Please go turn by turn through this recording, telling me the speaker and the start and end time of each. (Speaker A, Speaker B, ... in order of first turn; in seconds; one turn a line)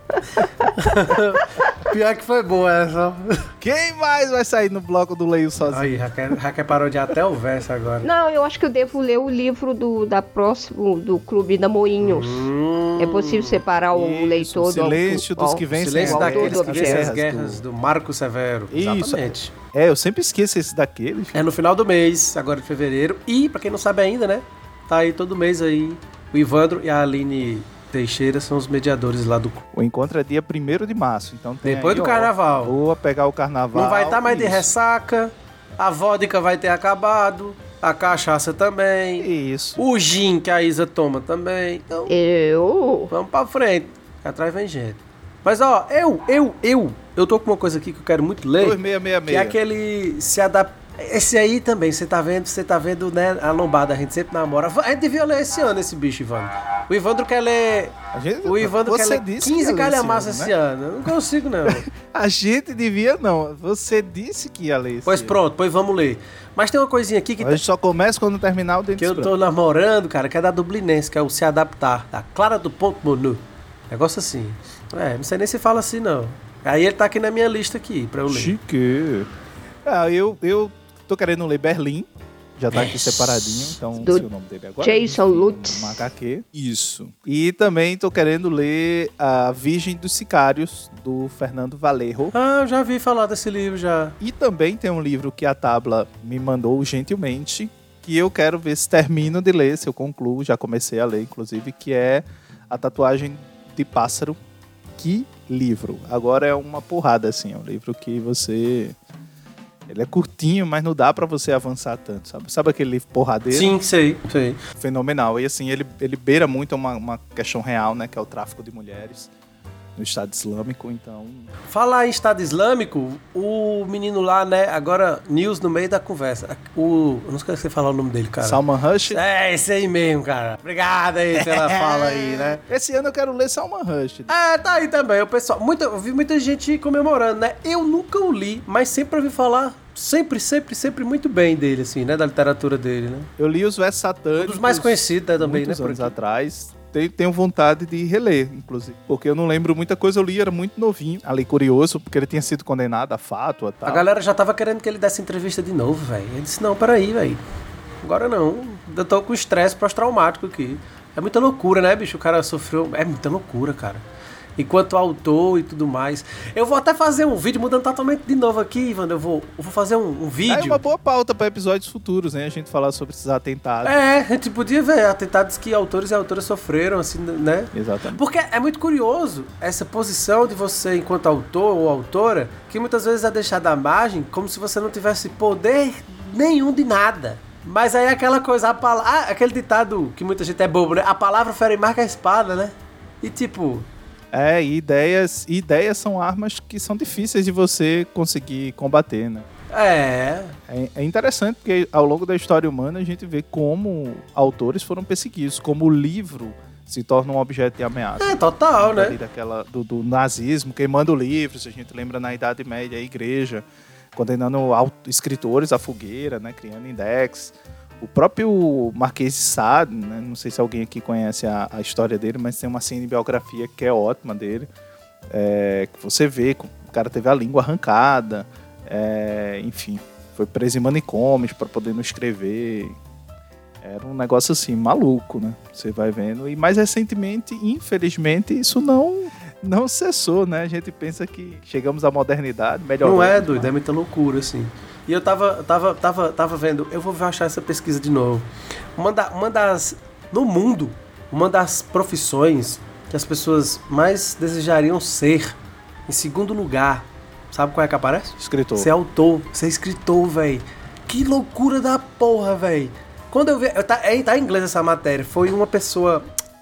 Speaker A: 0.1-0.7
Speaker B: 0.8-3.5
Speaker C: 3.6-6.0
Speaker B: 5.7-8.1
Speaker A: 8.0-17.1
Speaker B: 12.0-13.6
Speaker C: 13.9-17.6
Speaker B: 15.7-19.5
Speaker C: 18.7-21.5
Speaker B: 21.3-29.6
Speaker C: 29.7-34.7
Speaker B: 31.6-32.8
Speaker B: 33.7-42.1
Speaker C: 39.2-39.8
Speaker A: 42.1-43.1
Speaker B: 43.1-61.9
Speaker C: 48.6-49.6
Speaker C: 58.1-60.5
Speaker C: 61.6-65.4
Speaker B: 65.0-67.6
Speaker C: 67.4-69.3
Speaker B: 69.0-78.5
Speaker C: 78.3-79.3
Speaker C: 79.8-82.1
Speaker C: 82.6-92.3
Speaker B: 82.7-83.8
Speaker A: 84.0-84.2
Speaker A: 84.8-86.1
Speaker B: 92.3-94.2
Speaker C: 94.2-104.4
Speaker C: 105.0-109.0
Speaker C: 109.9-113.8
Speaker B: 113.5-114.6
Speaker C: 114.8-119.3
Speaker C: 120.0-121.5
Speaker B: 121.7-132.6
Speaker C: 128.4-129.2
Speaker C: 131.3-134.3
Speaker B: 134.3-143.3
Speaker C: 143.4-154.1
Speaker B: 144.4-146.1
Speaker B: 153.8-157.4
Speaker B: 158.0-164.0
Speaker B: 164.6-170.8
Speaker C: 170.4-174.0
Speaker B: 173.8-193.9
Speaker C: 177.7-178.2
Speaker C: 194.3-199.5
Speaker B: 199.7-200.6
Speaker C: 200.7-224.7
Speaker B: 208.2-209.2
Speaker C: 225.3-233.0
Speaker C: 233.8-243.7
Speaker B: 243.0-255.6
Speaker B: 256.1-266.2
Speaker C: 258.4-258.9